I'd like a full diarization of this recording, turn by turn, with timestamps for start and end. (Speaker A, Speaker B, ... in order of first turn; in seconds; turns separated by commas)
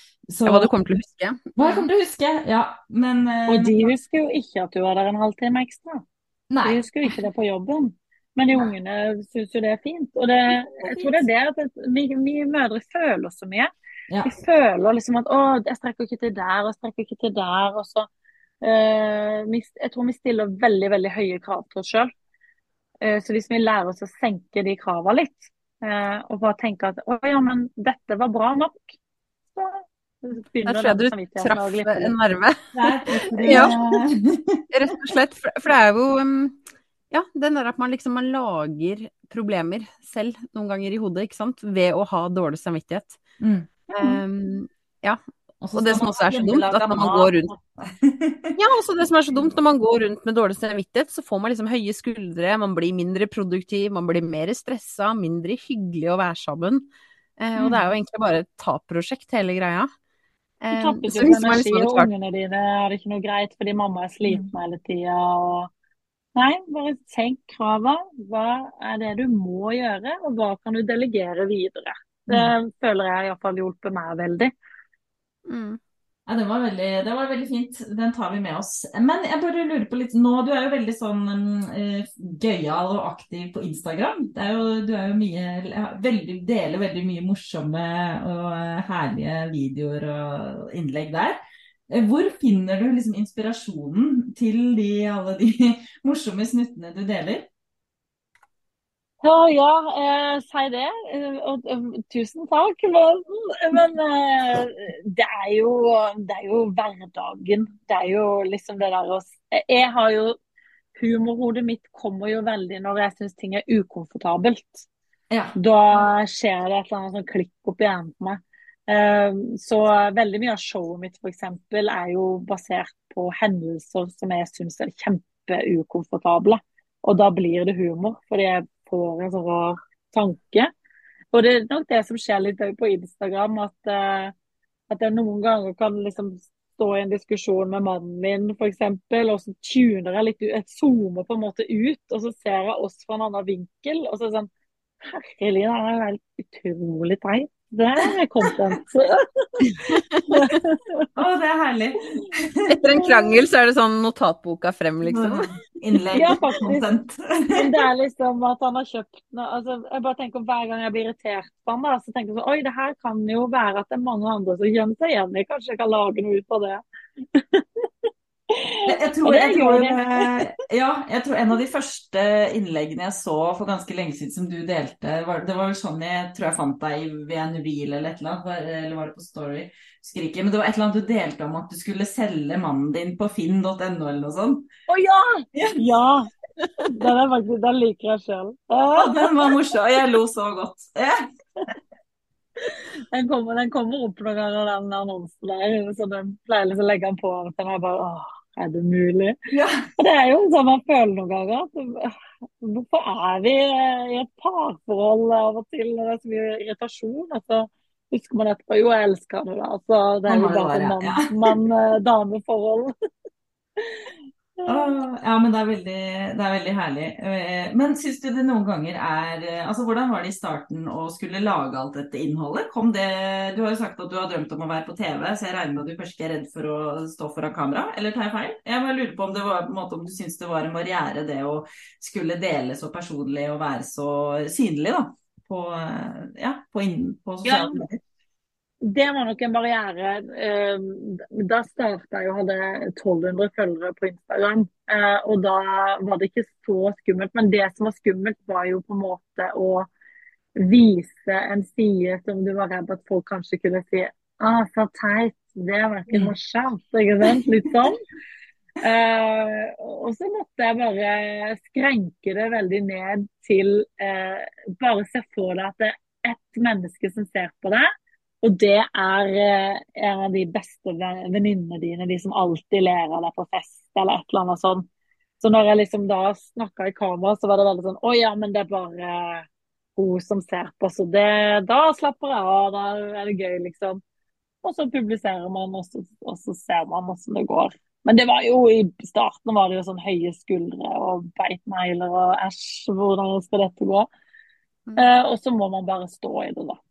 Speaker A: 0.3-0.7, Speaker B: 0.5-1.8, Speaker A: 1.6-3.9, Speaker C: 3.5-6.0, Speaker A: 6.5-6.8, Speaker C: 6.6-13.7, Speaker A: 10.8-11.2, Speaker A: 14.1-14.3, Speaker C: 14.2-18.1, Speaker C: 18.6-22.1, Speaker C: 23.0-28.9, Speaker C: 29.5-32.1, Speaker B: 30.6-32.6, Speaker A: 32.7-35.1, Speaker B: 33.4-33.8, Speaker C: 33.4-33.8, Speaker B: 34.7-36.6, Speaker B: 37.1-43.2, Speaker A: 43.4-44.2, Speaker B: 43.9-45.2, Speaker A: 45.6-48.6, Speaker B: 45.7-47.5, Speaker B: 48.6-56.9, Speaker B: 57.4-59.9, Speaker A: 57.5-57.9, Speaker B: 60.6-62.1, Speaker C: 60.7-65.7, Speaker A: 64.2-64.5, Speaker C: 66.3-74.5, Speaker B: 75.5-75.8, Speaker A: 76.3-91.4, Speaker A: 91.9-97.5, Speaker C: 99.2-110.4, Speaker C: 111.0-114.9, Speaker A: 115.3-116.0, Speaker C: 115.5-130.7, Speaker C: 131.3-134.3, Speaker C: 134.9-144.5, Speaker C: 145.0-149.5, Speaker A: 149.6-149.9, Speaker B: 149.9-150.6, Speaker C: 150.3-151.1, Speaker A: 151.1-152.6, Speaker B: 152.7-155.5, Speaker C: 152.9-153.3, Speaker A: 155.0-157.8, Speaker C: 156.1-156.9, Speaker C: 157.5-170.4, Speaker A: 168.8-184.7, Speaker C: 184.9-186.3, Speaker A: 185.5-185.8, Speaker C: 186.9-189.5, Speaker A: 188.9-191.3, Speaker C: 192.6-199.4, Speaker A: 199.5-199.9, Speaker C: 200.0-212.9, Speaker A: 210.3-211.5, Speaker C: 213.8-214.9, Speaker A: 214.7-238.0, Speaker C: 237.4-237.9, Speaker C: 238.8-249.9, Speaker C: 250.6-258.0, Speaker A: 256.1-256.3, Speaker C: 258.8-267.8, Speaker C: 268.4-274.8, Speaker C: 275.4-284.0, Speaker C: 284.6-294.1, Speaker C: 294.9-296.8